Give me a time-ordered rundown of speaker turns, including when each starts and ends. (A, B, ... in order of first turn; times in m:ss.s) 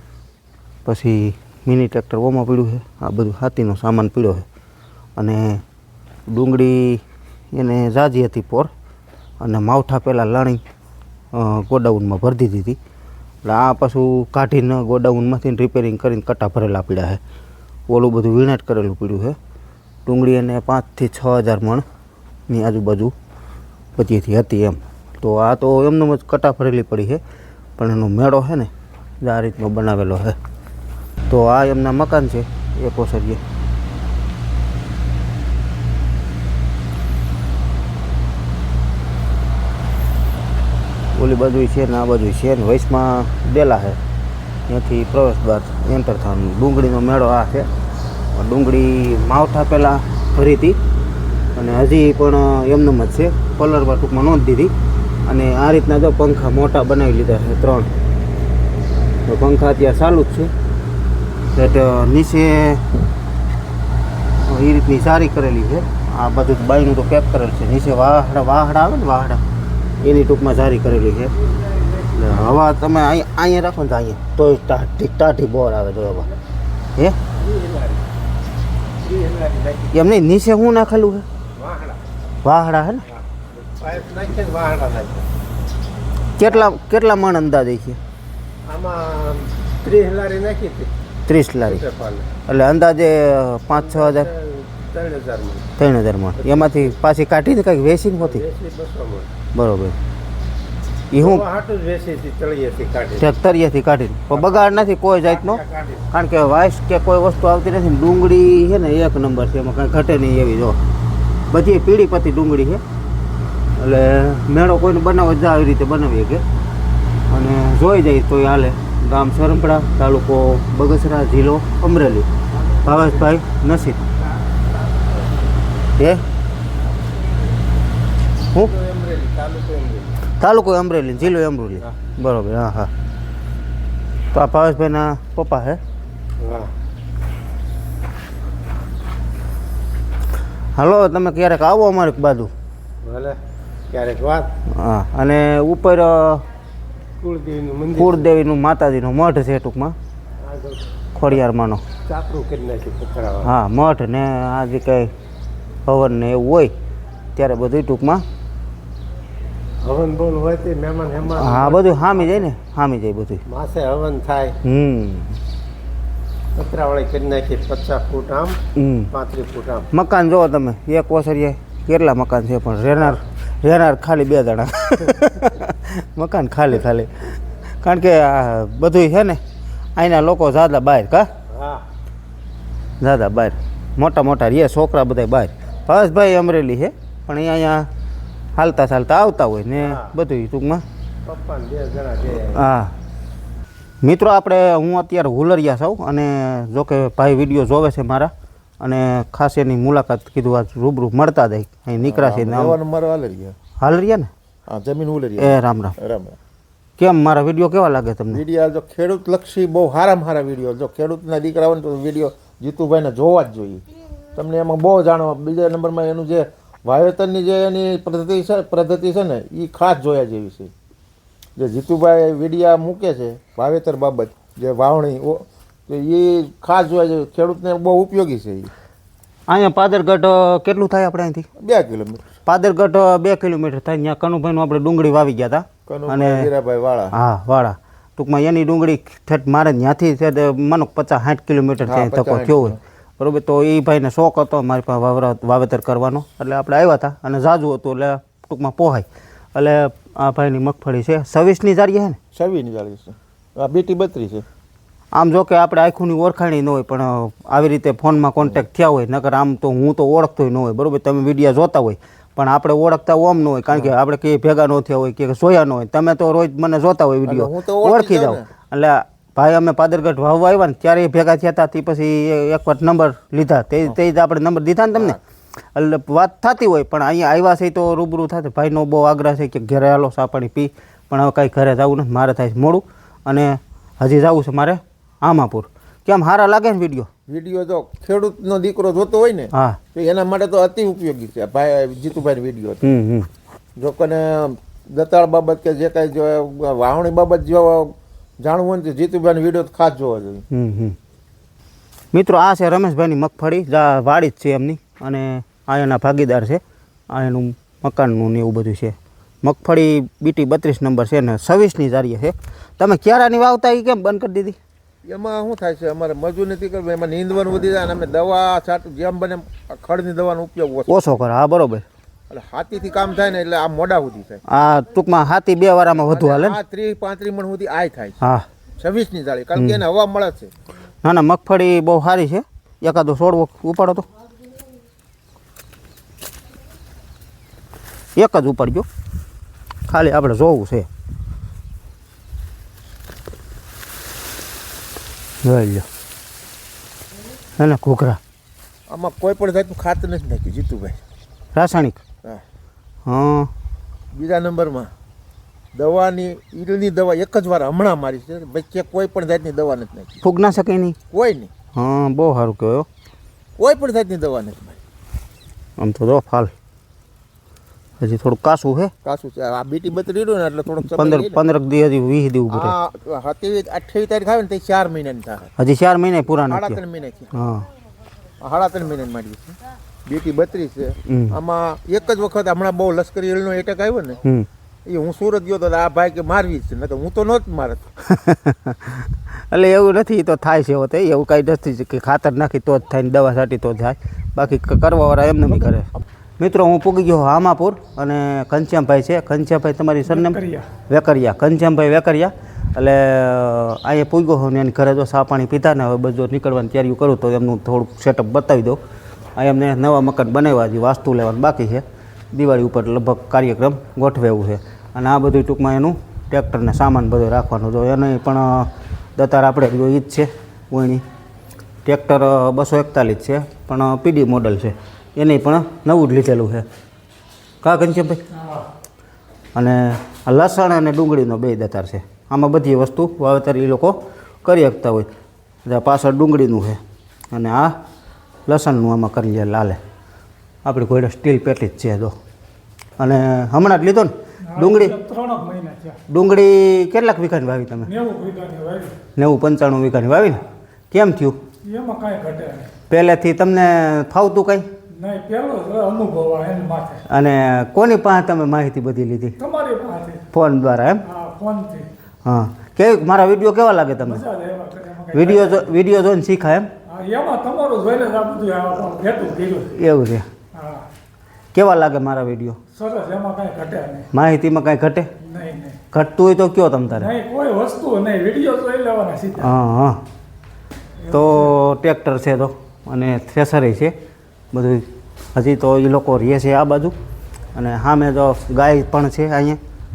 0:00.8-0:04.5 A
0:05.2-0:05.6 A
0:06.3-0:08.7 A
0:09.4-0:10.6 A
0:11.3-0:12.8 A
0:13.4-0:17.2 A
0:17.9-0:19.4 A
0:20.1-0:21.8 A
0:22.5-0:23.1 A
0:24.0-0:27.2 A
0:27.8-0:30.4 A
0:31.3-0:33.4 A
0:41.1-0:44.0 A
0:44.7-0:47.7 A
0:48.3-0:50.8 A
0:51.6-0:54.7 A
0:55.3-0:57.9 A
0:59.3-1:00.5 A
1:01.5-1:02.8 A
1:04.4-1:09.4 A
1:10.0-1:11.3 A
1:11.4-1:12.4 B
1:12.1-1:16.3 A
1:17.3-1:18.0 B
1:19.0-1:19.9 B
1:19.9-1:21.3 A
1:21.6-1:22.0 B
1:22.4-1:23.0 A
1:23.2-1:25.3 B
1:26.4-1:28.0 A
1:28.7-1:30.9 B
1:31.3-1:31.8 A
1:31.6-1:32.3 B
1:32.5-1:34.3 A
1:33.7-1:35.6 B
1:35.8-1:38.4 A
1:36.4-1:36.9 B
1:38.2-1:39.3 B
1:39.5-1:40.0 A
1:41.1-1:41.5 A
1:41.2-1:43.3 B
1:43.2-1:50.8 A
1:44.3-1:46.0 B
1:51.5-1:52.8 A
1:53.8-1:56.4 A
1:57.3-2:02.3 A
2:02.7-2:03.3 B
2:02.8-2:04.1 A
2:04.5-2:05.3 B
2:06.0-2:06.2 A
2:08.6-2:10.2 B
2:10.3-2:12.9 A
2:14.3-2:15.8 A
2:16.4-2:16.7 C
2:20.8-2:22.5 A
2:23.0-2:23.4 B
2:23.0-2:23.3 C
2:23.9-2:24.5 B
2:24.7-2:26.4 A
2:27.2-2:28.0 C
2:27.2-2:28.1 B
2:27.9-2:30.0 A
2:30.5-2:30.8 B
2:31.2-2:31.8 A
2:32.1-2:33.4 B
2:32.5-2:33.3 C
2:33.4-2:35.1 A
2:35.9-2:36.7 A
2:37.4-2:38.2 A
2:39.8-2:41.9 C
2:39.8-2:42.4 B
2:41.2-2:43.4 A
2:43.5-2:44.6 B
2:44.6-2:45.4 A
2:46.6-2:48.6 B
2:48.8-2:49.1 A
2:49.2-2:49.8 B
2:49.2-2:49.8 C
2:49.9-2:59.4 A
3:00.0-3:01.3 A
3:01.5-3:01.8 B
3:03.0-3:07.9 A
3:08.6-3:10.8 A
3:11.3-3:12.2 C
3:11.3-3:12.6 B
3:12.3-3:12.9 A
3:14.0-3:22.8 A
3:22.0-3:23.6 B
3:23.8-3:24.3 A
3:24.7-3:26.4 B
3:25.4-3:26.0 A
3:27.0-3:28.4 A
3:28.3-3:40.7 B
3:41.6-3:48.7 B
3:49.5-3:51.5 A
3:51.6-3:52.2 B
3:52.5-3:56.5 A
3:55.9-3:57.2 B
3:57.1-4:12.2 A
4:01.9-4:02.8 B
4:12.3-4:14.4 B
4:15.1-4:35.2 A
4:27.3-4:28.5 B
4:35.7-4:47.1 A
4:47.3-4:52.8 B
4:49.5-4:49.8 A
4:52.8-4:53.3 A
4:53.8-5:00.5 B
5:00.5-5:01.0 A
5:02.1-5:14.6 A
5:15.0-5:21.1 B
5:20.9-5:21.8 A
5:22.3-5:24.4 B
5:24.5-5:26.6 A
5:26.0-5:28.2 B
5:28.2-5:28.5 A
5:28.8-5:30.5 B
5:31.0-5:34.1 A
5:38.2-5:38.9 A
5:39.9-5:40.9 A
5:45.4-5:45.9 A
5:47.6-5:48.2 A
5:48.9-5:51.0 B
5:51.6-5:52.0 A
5:53.1-5:53.5 A
5:54.1-5:54.9 B
5:55.7-6:00.2 B
6:00.2-6:01.0 A
6:01.1-6:01.5 B
6:01.7-6:02.9 A
6:03.6-6:04.8 B
6:05.8-6:06.5 A
6:08.0-6:08.9 A
6:09.0-6:11.4 B
6:10.9-6:12.7 A
6:12.5-6:15.5 B
6:15.6-6:16.8 A
6:16.5-6:17.3 B
6:17.3-6:17.7 A
6:18.4-6:24.2 B
6:21.1-6:21.4 A
6:24.9-6:27.8 B
6:28.1-6:35.9 A
6:36.4-6:48.8 A
6:40.0-6:40.7 D
6:49.4-7:01.0 A
7:01.8-7:06.7 A
7:07.6-7:08.2 A
7:08.3-7:08.7 D
7:09.6-7:15.1 A
7:15.7-7:16.8 A
7:17.3-7:17.8 A
7:18.5-7:19.8 A
7:20.6-7:22.1 A
7:23.0-7:25.0 A
7:24.5-7:26.0 D
7:26.1-7:27.9 A
7:27.8-7:29.0 D
7:29.2-7:31.4 A
7:31.6-7:32.7 D
7:32.9-7:34.7 A
7:34.9-7:37.0 D
7:37.1-7:39.4 A
7:39.4-7:40.3 D
7:40.3-7:41.0 A
7:41.0-7:41.9 D
7:42.2-7:44.2 A
7:44.0-7:45.7 D
7:45.1-7:46.7 A
7:46.9-7:49.7 D
7:49.7-7:50.3 A
7:50.5-7:50.9 D
7:51.5-7:52.6 A
7:52.7-7:54.1 D
7:54.1-7:55.1 A
7:55.2-7:55.8 D
7:55.9-7:57.1 A
7:56.9-7:59.6 D
7:59.4-8:00.0 A
8:01.0-8:01.5 D
8:01.1-8:03.9 A
8:04.5-8:07.0 A
8:07.6-8:09.6 A